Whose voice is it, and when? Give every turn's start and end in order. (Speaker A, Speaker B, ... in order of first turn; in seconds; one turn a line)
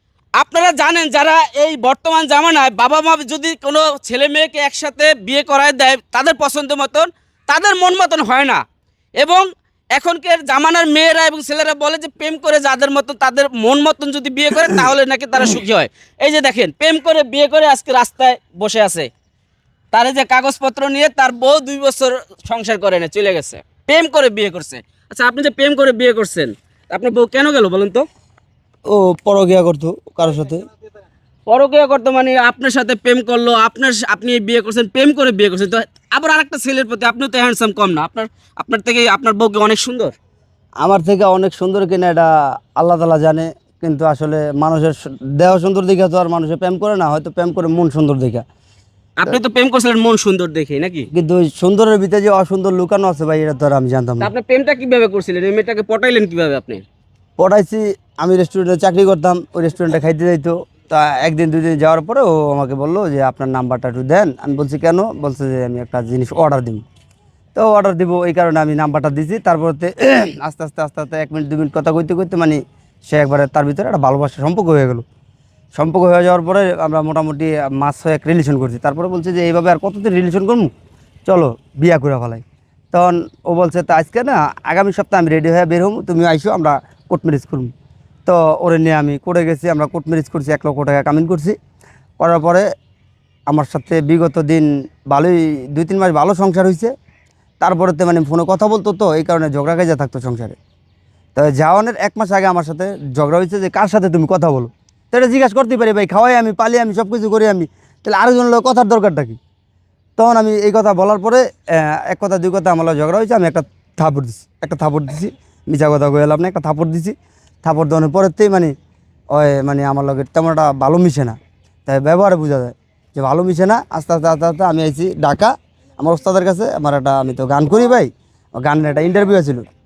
Speaker A: 0.4-8.6
Speaker A: 9.2-19.1
Speaker A: 19.9-28.1
Speaker B: 28.9-30.6
Speaker A: 31.5-40.1
Speaker B: 40.8-48.4
Speaker A: 49.2-51.1
Speaker B: 51.1-54.3
Speaker A: 54.2-56.8
Speaker B: 57.4-66.8
Speaker B: 67.5-75.0
Speaker B: 75.8-80.7
Speaker B: 81.3-87.7
Speaker B: 88.3-91.6
Speaker B: 92.2-92.7
Speaker B: 93.5-96.9
Speaker B: 97.6-100.6
Speaker B: 101.3-109.4
Speaker B: 110.2-118.7
Speaker B: 119.3-129.7